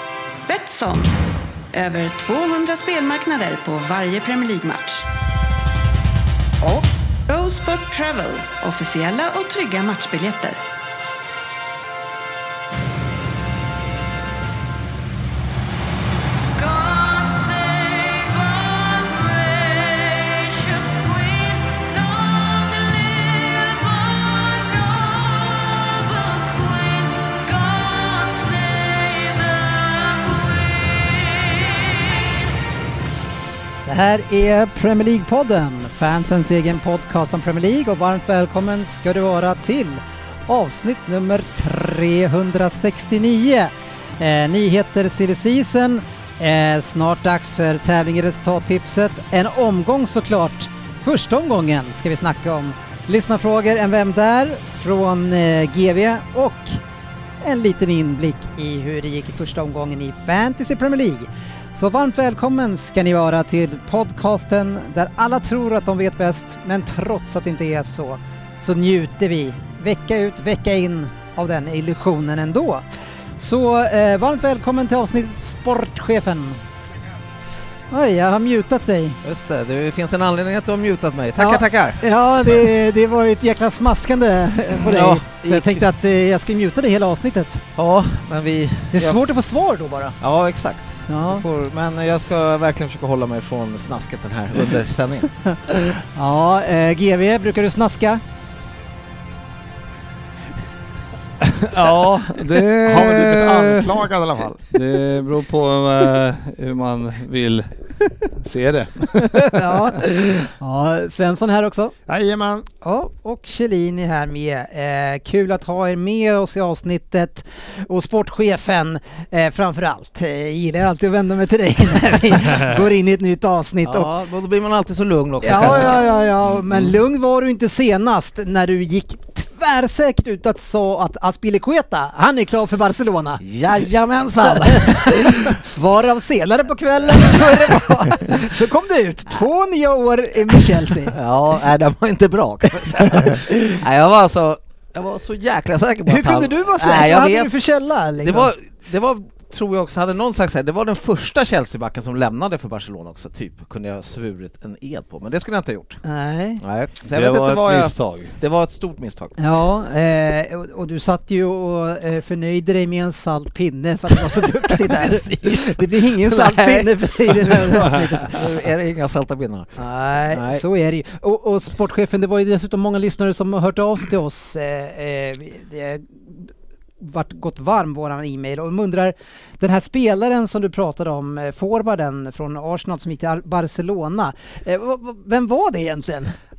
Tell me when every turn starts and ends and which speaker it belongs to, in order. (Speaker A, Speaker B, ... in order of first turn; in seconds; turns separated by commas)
Speaker A: 0.5-1.1, Speaker A: 1.7-5.0, Speaker A: 6.6-10.6, Speaker B: 16.6-32.5, Speaker C: 33.9-56.8, Speaker C: 57.4-72.8, Speaker C: 73.4-76.6, Speaker C: 77.9-79.2, Speaker D: 79.2-82.7, Speaker C: 81.4-87.6, Speaker D: 84.7-85.9, Speaker D: 87.8-89.2, Speaker C: 88.9-90.2, Speaker D: 90.2-95.4, Speaker C: 91.1-91.4, Speaker C: 95.5-98.2, Speaker E: 101.4-104.1, Speaker F: 102.8-104.7, Speaker E: 104.7-107.7, Speaker E: 108.3-110.0, Speaker C: 109.4-111.9, Speaker F: 112.1-112.7, Speaker C: 112.8-124.1, Speaker D: 123.8-126.0, Speaker C: 125.4-133.4, Speaker D: 133.4-135.2, Speaker C: 134.4-141.2, Speaker D: 141.1-147.5, Speaker C: 146.1-148.5, Speaker D: 148.2-156.0, Speaker C: 156.0-156.6, Speaker D: 156.6-159.4, Speaker E: 157.1-158.3, Speaker C: 159.4-168.5, Speaker D: 164.7-169.8, Speaker C: 169.8-186.3, Speaker D: 170.3-170.6